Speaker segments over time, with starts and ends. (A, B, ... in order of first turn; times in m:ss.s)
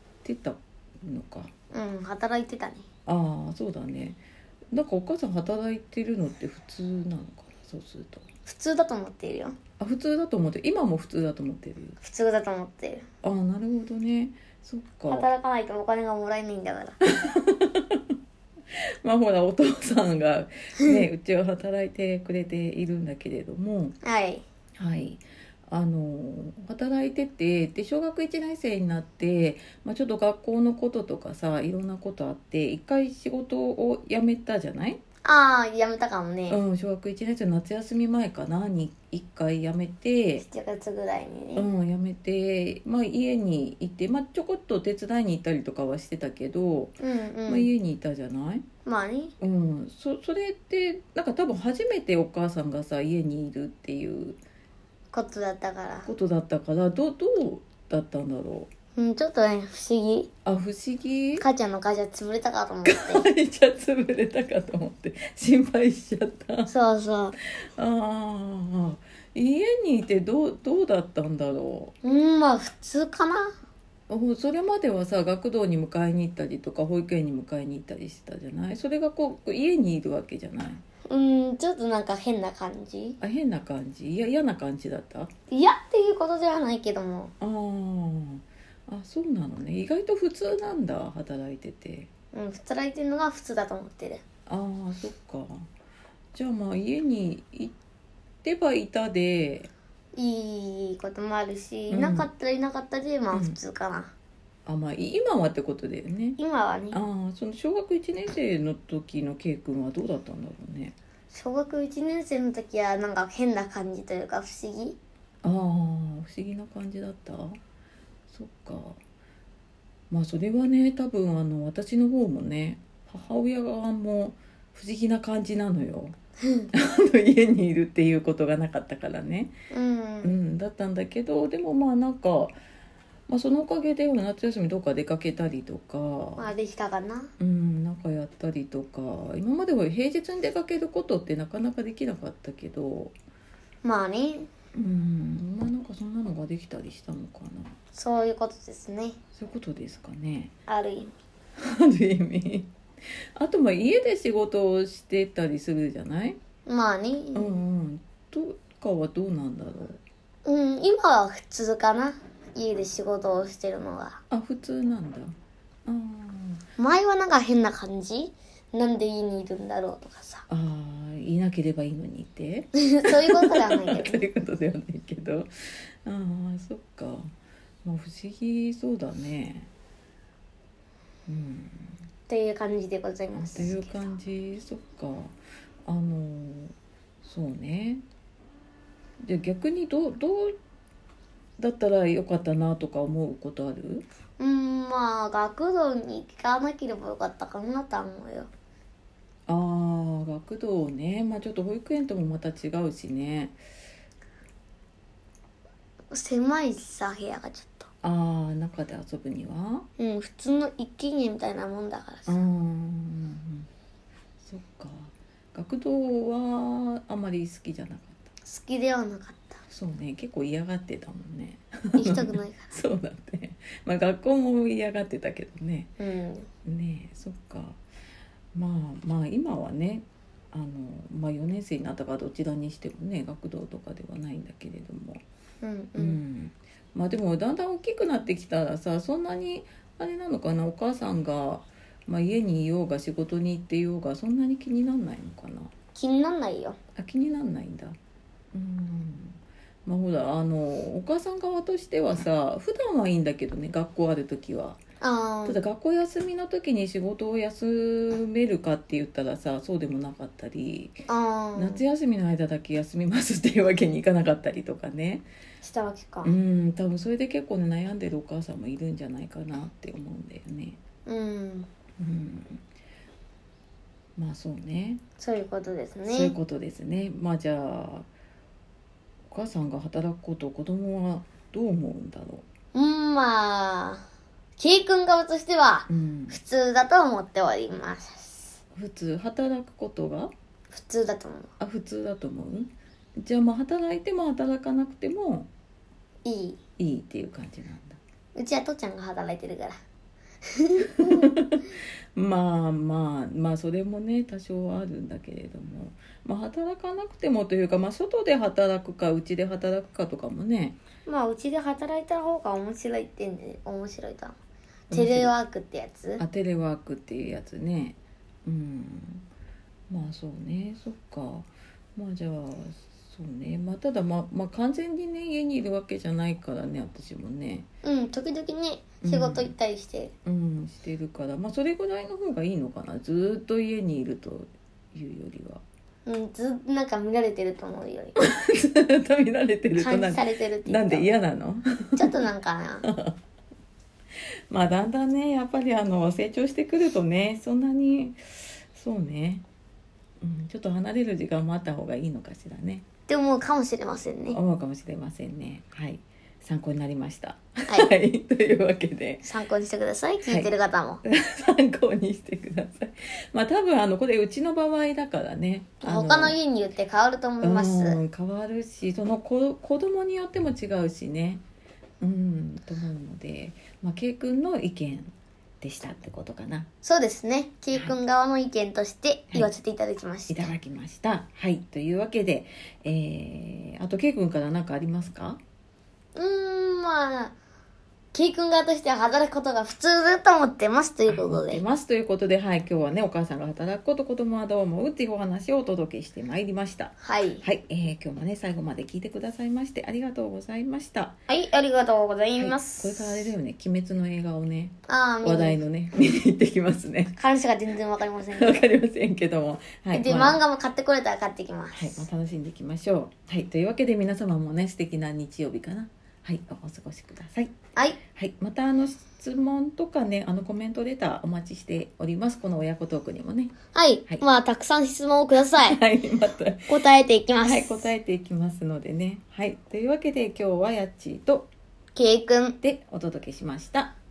0:00.2-0:01.5 A
0:01.7-0:02.8 B
0:03.0-0:04.2 A
0:04.7-0:08.2 A
0:08.4-0:09.6 B
0:09.8-0:12.0 A
0:12.0-0:13.0 B
0:13.2-0:15.3 A
0:15.1-0:17.0 B
0:17.1-0:18.1 A
0:19.0-0:24.0 A
0:24.0-0:24.4 B
0:24.8-0:35.0 A
0:35.2-0:36.6 B
0:36.5-0:40.4 A
0:40.4-0:41.7 B
0:41.6-0:46.9 A
0:47.0-0:47.7 B
0:47.4-0:48.6 A
0:48.8-0:49.3 B
0:49.4-0:54.4 A
0:55.1-0:56.1 B
0:56.0-0:58.7 A
0:59.0-1:00.3 B
1:00.4-1:01.4 A
1:01.4-1:03.2 B
1:02.8-1:06.7 A
1:06.7-1:07.4 B
1:07.6-1:11.9 A
1:12.0-1:13.6 B
1:14.1-1:20.8 A
1:21.1-1:23.2 B
1:23.2-1:25.3 A
1:25.5-1:27.3 B
1:27.4-1:32.1 A
1:32.3-1:34.2 B
1:34.5-1:35.7 A
1:36.3-1:37.7 A
1:38.4-1:39.7 A
1:40.1-1:44.1 B
1:41.9-1:42.3 A
1:43.3-1:43.6 A
1:44.6-1:46.4 A
1:46.4-1:47.0 B
1:46.9-1:50.9 A
1:51.3-1:55.0 B
1:55.4-1:57.6 A
1:58.3-1:59.0 A
2:00.1-2:06.2 A
2:06.4-2:06.7 B
2:06.7-2:09.5 A
2:09.7-2:10.3 B
2:10.2-2:12.5 A
2:13.3-2:16.5 A
2:16.4-2:17.3 B
2:17.4-2:23.1 A
2:23.8-2:24.5 B
2:24.7-2:27.8 A
2:27.9-2:29.2 B
2:29.4-2:30.5 A
2:30.7-2:31.1 B
2:31.6-2:32.7 A
2:33.4-2:36.4 A
2:36.6-2:37.6 B
2:37.3-2:40.0 A
2:40.4-2:44.2 B
2:44.3-2:45.3 A
2:45.8-2:46.6 A
2:46.8-2:50.4 B
2:50.5-2:55.5 A
2:52.8-2:54.2 B
2:56.0-2:57.3 A
2:57.8-2:59.7 A
3:01.3-3:02.0 A
3:02.3-3:04.0 B
3:03.3-3:05.3 A
3:05.8-3:08.0 A
3:09.2-3:10.5 A
3:11.6-3:14.0 A
3:14.4-3:18.5 B
3:19.5-3:23.6 A
3:26.1-3:27.9 B
3:28.0-3:29.8 A
3:30.0-3:32.3 B
3:32.3-3:33.7 A
3:34.4-3:38.2 A
3:38.4-3:39.6 B
3:39.7-3:45.9 A
3:42.0-3:42.7 B
3:46.0-3:46.5 B
3:46.6-3:47.8 A
3:48.5-3:55.2 A
3:55.6-3:56.2 B
3:56.0-4:05.7 A
4:05.9-4:06.8 B
4:07.0-4:08.0 A
4:08.5-4:14.8 A
4:15.0-4:15.6 B
4:15.4-4:20.9 A
4:21.1-4:21.8 B
4:21.6-4:25.2 A
4:25.6-4:26.3 B
4:26.2-4:30.8 A
4:31.0-4:31.7 B
4:32.0-4:32.6 A
4:34.2-4:35.0 A
4:35.2-4:36.3 B
4:36.1-4:38.1 A
4:39.3-4:42.4 A
4:42.7-4:44.0 B
4:44.6-4:48.6 B
4:45.9-4:46.4 A
4:48.7-4:50.3 A
4:50.7-4:51.5 B
4:51.6-4:55.5 A
4:56.2-4:56.6 B
4:56.8-4:58.0 A
4:58.3-4:59.8 B
5:00.4-5:01.3 B
5:01.0-5:10.8 A
5:11.0-5:14.4 B
5:14.9-5:15.3 A
5:14.9-5:16.2 B
5:16.2-5:19.3 A
5:19.9-5:27.6 A
5:27.8-5:30.1 B
5:29.0-5:29.5 A
5:30.2-5:35.6 A
5:36.0-5:38.2 B
5:38.2-5:42.2 A
5:39.8-5:41.1 B
5:42.0-5:42.8 B
5:42.8-5:43.2 A
5:44.5-5:49.4 A
5:50.2-5:52.8 A
5:53.1-5:54.4 B
5:54.3-5:59.3 A
5:59.2-6:01.0 B
6:00.2-6:00.5 A
6:01.0-6:06.4 A
6:05.8-6:08.0 B
6:07.4-6:11.4 A
6:12.0-6:16.7 A
6:16.8-6:20.5 B
6:20.3-6:25.4 A
6:26.2-6:27.3 B
6:28.1-6:31.6 B
6:31.1-6:41.1 A
6:37.0-6:37.4 B
6:41.3-6:43.3 B
6:42.4-6:47.2 A
6:44.9-6:45.6 B
6:47.2-6:48.6 B
6:48.3-6:50.4 A
6:49.9-6:52.0 B
6:51.7-6:57.5 A
6:58.2-7:03.5 A
7:03.7-7:05.8 B
7:05.5-7:06.8 A
7:06.7-7:07.9 B
7:07.4-7:11.5 A
7:11.9-7:12.6 B
7:12.6-7:13.9 A